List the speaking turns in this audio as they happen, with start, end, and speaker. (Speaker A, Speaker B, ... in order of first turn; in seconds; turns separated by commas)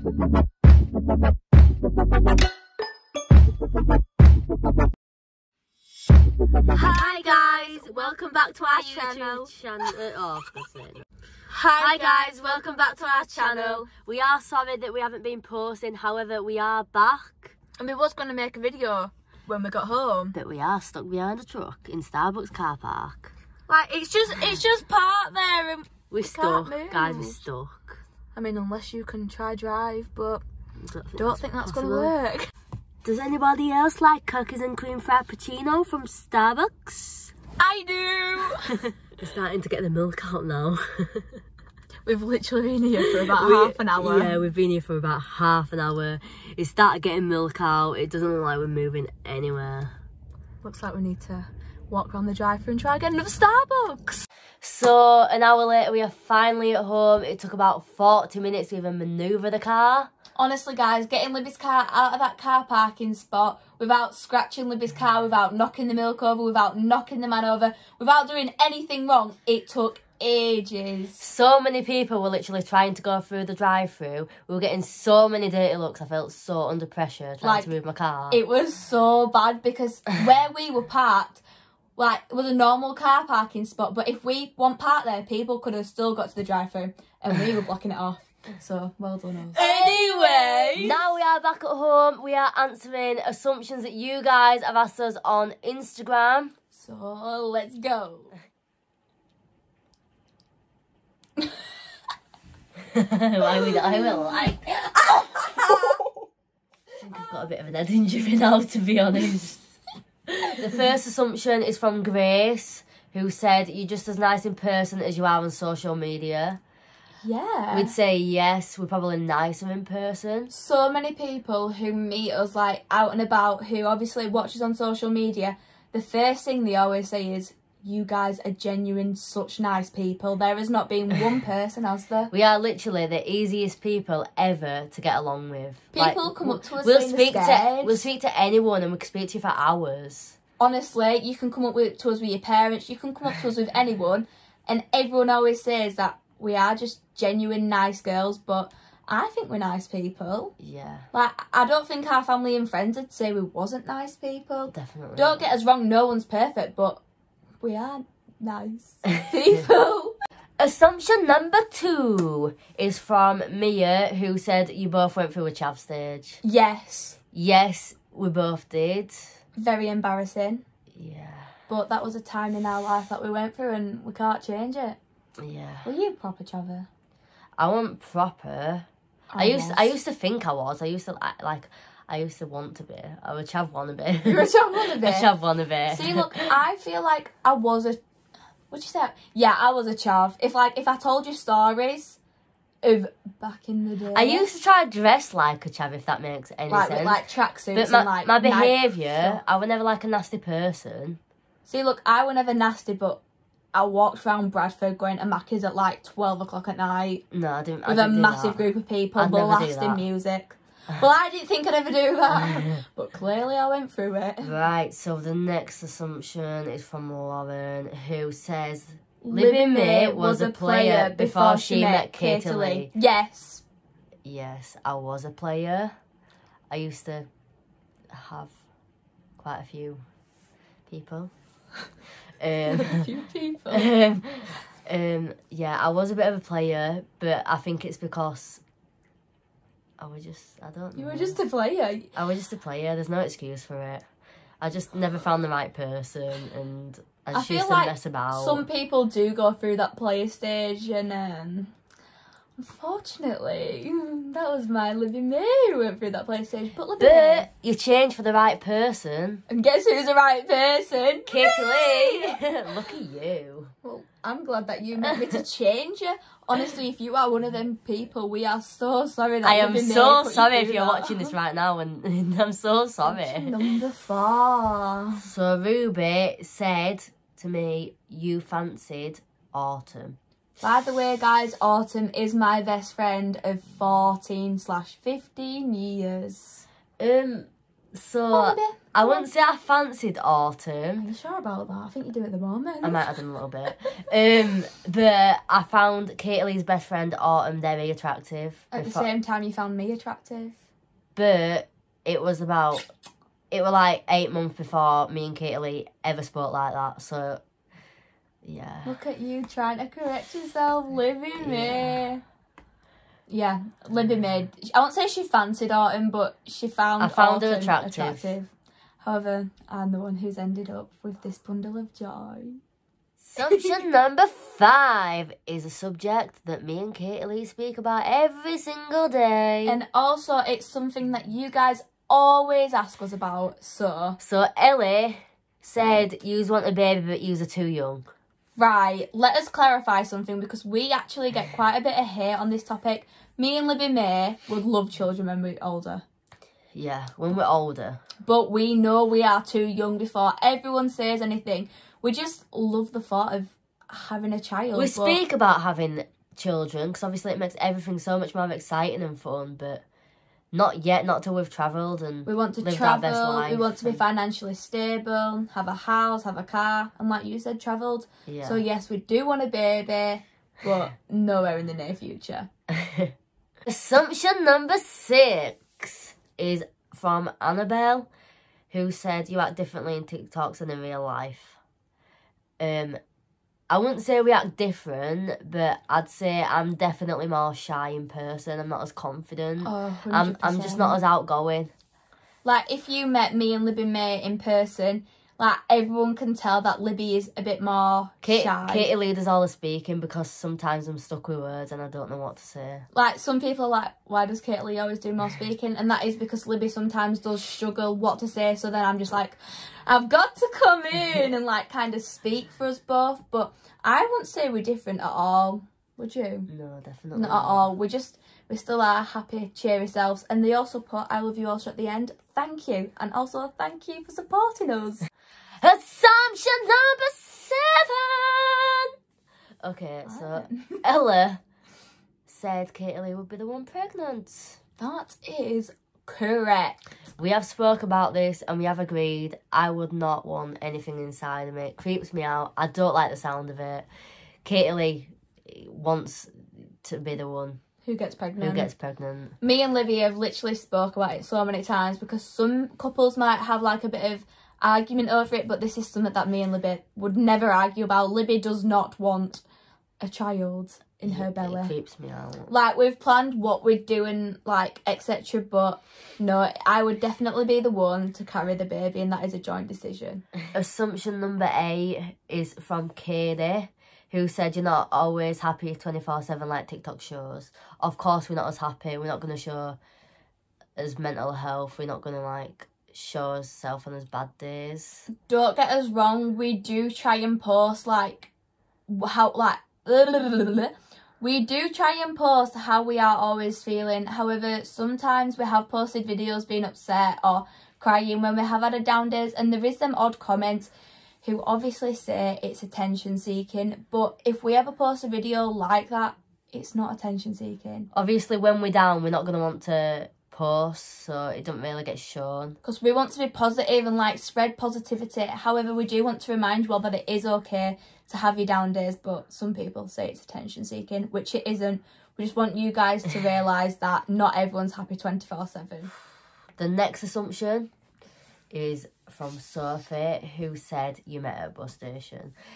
Speaker A: 6.7-11.1, Speaker B: 6.7-9.5, Speaker B: 11.5-13.9, Speaker A: 11.8-17.6, Speaker B: 17.8-20.4, Speaker A: 20.4-23.3, Speaker B: 23.7-27.4, Speaker A: 26.1-28.0, Speaker B: 28.3-30.4, Speaker A: 30.8-32.1, Speaker B: 31.2-32.5, Speaker A: 33.0-37.3, Speaker B: 37.6-38.8, Speaker A: 39.1-41.4, Speaker B: 42.1-44.4, Speaker A: 43.2-50.0, Speaker B: 50.6-54.3, Speaker A: 54.6-60.1, Speaker B: 60.4-71.2, Speaker A: 71.2-78.4, Speaker B: 77.4-77.7, Speaker B: 78.3-81.4, Speaker B: 82.0-91.2, Speaker A: 89.5-96.5, Speaker B: 96.7-98.3, Speaker A: 102.9-104.9, Speaker B: 103.5-106.0, Speaker A: 107.0-109.6, Speaker A: 110.3-116.6, Speaker B: 117.2-117.9, Speaker A: 117.7-120.5, Speaker B: 120.5-132.3, Speaker A: 132.3-140.4, Speaker B: 135.9-138.1, Speaker B: 140.6-150.5, Speaker A: 150.6-151.1, Speaker B: 151.1-157.0, Speaker A: 154.7-155.4, Speaker B: 157.6-160.2, Speaker A: 160.6-166.4, Speaker B: 166.4-167.2, Speaker A: 167.3-169.4, Speaker B: 169.6-170.6, Speaker A: 170.9-171.5, Speaker B: 171.7-175.0, Speaker A: 175.4-175.9, Speaker B: 175.8-176.9, Speaker A: 177.6-178.9, Speaker B: 179.3-180.0, Speaker A: 179.4-186.5, Speaker B: 184.2-185.3, Speaker B: 185.9-188.0, Speaker B: 188.7-192.2, Speaker B: 192.8-194.5, Speaker A: 194.1-197.2, Speaker B: 196.7-199.4, Speaker A: 197.7-201.2, Speaker B: 201.7-203.2, Speaker B: 203.7-207.2, Speaker A: 207.3-208.6, Speaker B: 207.9-214.5, Speaker A: 209.2-210.0, Speaker A: 212.3-212.8, Speaker A: 214.4-222.9, Speaker B: 219.2-223.6, Speaker A: 224.2-225.9, Speaker A: 226.7-227.3, Speaker A: 228.1-228.6, Speaker A: 229.4-230.0, Speaker A: 230.9-231.3, Speaker A: 232.4-233.1, Speaker B: 232.7-233.9, Speaker A: 233.7-238.6, Speaker A: 240.0-241.4, Speaker B: 241.0-242.1, Speaker A: 242.1-244.1, Speaker A: 244.6-248.7, Speaker B: 247.3-251.7, Speaker B: 252.6-257.5, Speaker A: 257.0-259.4, Speaker B: 259.5-262.4, Speaker A: 261.3-263.7, Speaker B: 263.8-271.3, Speaker A: 269.4-273.6, Speaker B: 273.1-275.2, Speaker A: 275.2-280.2, Speaker B: 280.6-286.7, Speaker A: 287.0-291.1, Speaker B: 288.3-289.3, Speaker B: 291.0-293.2, Speaker A: 292.8-299.1, Speaker B: 298.7-300.6, Speaker A: 301.2-302.8, Speaker A: 303.5-307.4, Speaker A: 308.4-309.0, Speaker B: 308.9-312.2, Speaker A: 311.4-312.0, Speaker B: 313.3-322.6, Speaker A: 317.0-318.4, Speaker A: 323.2-329.8, Speaker B: 329.7-334.2, Speaker A: 334.2-338.1, Speaker B: 338.6-346.0, Speaker A: 346.8-348.0, Speaker B: 348.2-355.2, Speaker A: 354.7-359.8, Speaker A: 360.5-364.0, Speaker B: 362.3-372.5, Speaker A: 368.3-368.6, Speaker A: 372.7-373.1, Speaker A: 373.7-378.1, Speaker A: 378.7-381.6, Speaker A: 382.6-383.0, Speaker A: 383.7-391.7, Speaker B: 389.6-391.0, Speaker B: 392.4-398.9, Speaker A: 398.2-402.9, Speaker B: 402.9-416.5, Speaker A: 416.5-417.7, Speaker B: 417.1-425.1, Speaker A: 425.6-428.9, Speaker A: 429.6-431.4, Speaker B: 430.1-430.8, Speaker A: 432.3-434.6, Speaker B: 434.8-436.8, Speaker A: 437.2-443.9, Speaker A: 444.4-447.6, Speaker B: 447.8-448.7, Speaker A: 448.4-449.3, Speaker B: 449.4-459.4, Speaker B: 460.0-461.7, Speaker A: 461.0-462.5, Speaker B: 462.5-470.2, Speaker A: 470.5-479.8, Speaker A: 480.8-485.1, Speaker B: 485.1-488.3, Speaker B: 488.9-500.7, Speaker B: 501.2-507.9, Speaker A: 507.9-512.6, Speaker B: 512.6-525.9, Speaker A: 526.6-527.7, Speaker A: 528.5-532.3